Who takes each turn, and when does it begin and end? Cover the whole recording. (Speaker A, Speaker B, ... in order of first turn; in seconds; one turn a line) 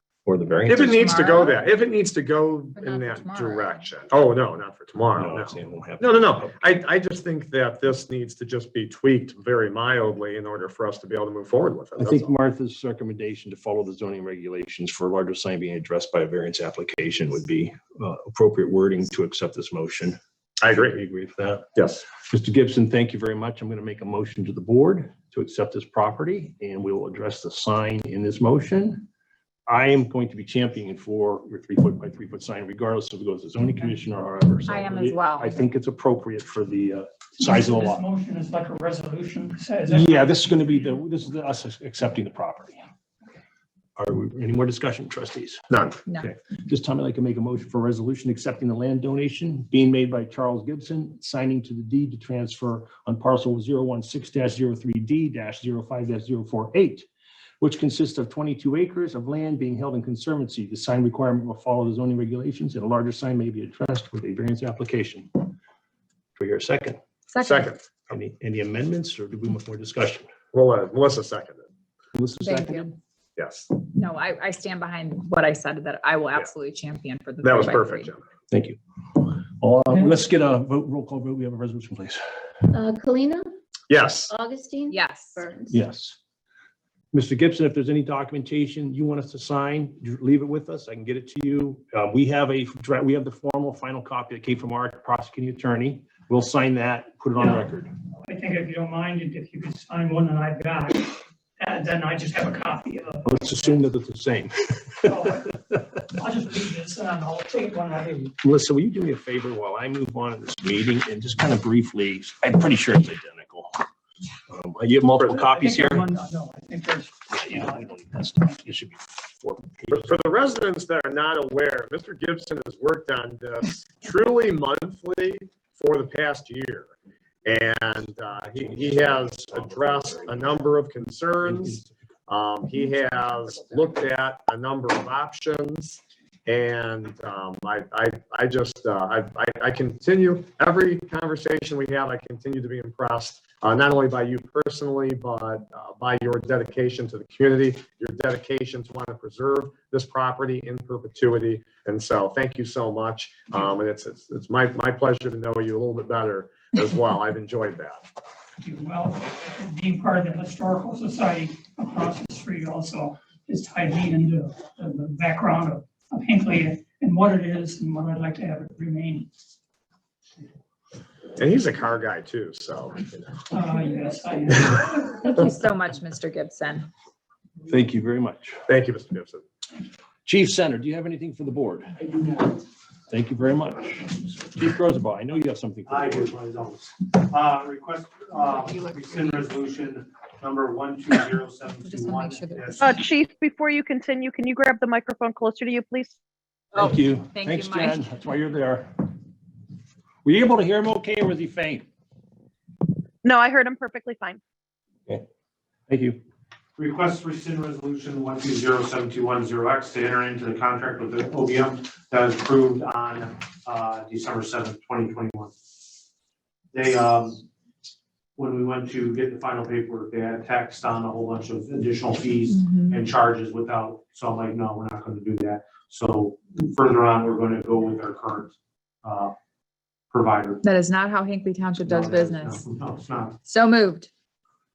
Speaker A: 0.2-1.1
Speaker B: 0.7-12.3
Speaker C: 0.9-1.6
Speaker C: 2.8-3.9
Speaker A: 5.2-6.5
Speaker A: 12.0-20.2
Speaker B: 20.6-21.0
Speaker A: 20.7-29.1
Speaker B: 21.8-22.0
Speaker A: 29.7-38.0
Speaker C: 34.7-35.7
Speaker D: 37.4-40.3
Speaker A: 39.9-42.8
Speaker A: 44.0-45.6
Speaker B: 45.7-46.0
Speaker A: 46.2-57.1
Speaker A: 57.6-65.5
Speaker A: 66.4-67.0
Speaker C: 67.3-67.7
Speaker B: 67.4-67.8
Speaker A: 68.1-70.3
Speaker B: 70.5-71.7
Speaker A: 72.2-73.0
Speaker C: 72.4-72.9
Speaker B: 73.4-73.8
Speaker C: 73.9-78.1
Speaker B: 77.4-78.2
Speaker A: 78.5-82.2
Speaker E: 82.7-83.5
Speaker B: 83.9-84.3
Speaker E: 84.3-85.8
Speaker C: 84.9-85.4
Speaker A: 85.7-86.2
Speaker A: 87.1-97.9
Speaker D: 97.4-97.7
Speaker D: 98.2-103.4
Speaker A: 103.2-105.5
Speaker D: 105.0-105.6
Speaker D: 106.1-108.4
Speaker A: 108.4-113.8
Speaker A: 114.5-116.1
Speaker D: 115.3-118.6
Speaker A: 117.3-120.2
Speaker B: 119.9-126.9
Speaker B: 127.5-158.1
Speaker A: 128.5-130.6
Speaker A: 131.4-131.9
Speaker D: 158.6-169.3
Speaker B: 171.4-173.4
Speaker D: 173.5-175.0
Speaker C: 175.1-176.9
Speaker A: 177.7-178.6
Speaker B: 178.7-179.4
Speaker A: 180.2-182.1
Speaker A: 183.1-186.3
Speaker F: 185.9-192.8
Speaker C: 188.4-189.4
Speaker C: 191.8-192.9
Speaker G: 192.8-196.1
Speaker C: 196.8-198.0
Speaker A: 196.8-199.1
Speaker A: 200.2-201.9
Speaker G: 203.2-204.4
Speaker A: 205.9-206.2
Speaker F: 206.8-215.5
Speaker F: 216.7-217.4
Speaker F: 218.4-229.3
Speaker C: 222.5-223.1
Speaker F: 230.1-230.6
Speaker C: 230.6-232.7
Speaker F: 231.8-233.4
Speaker C: 233.4-234.1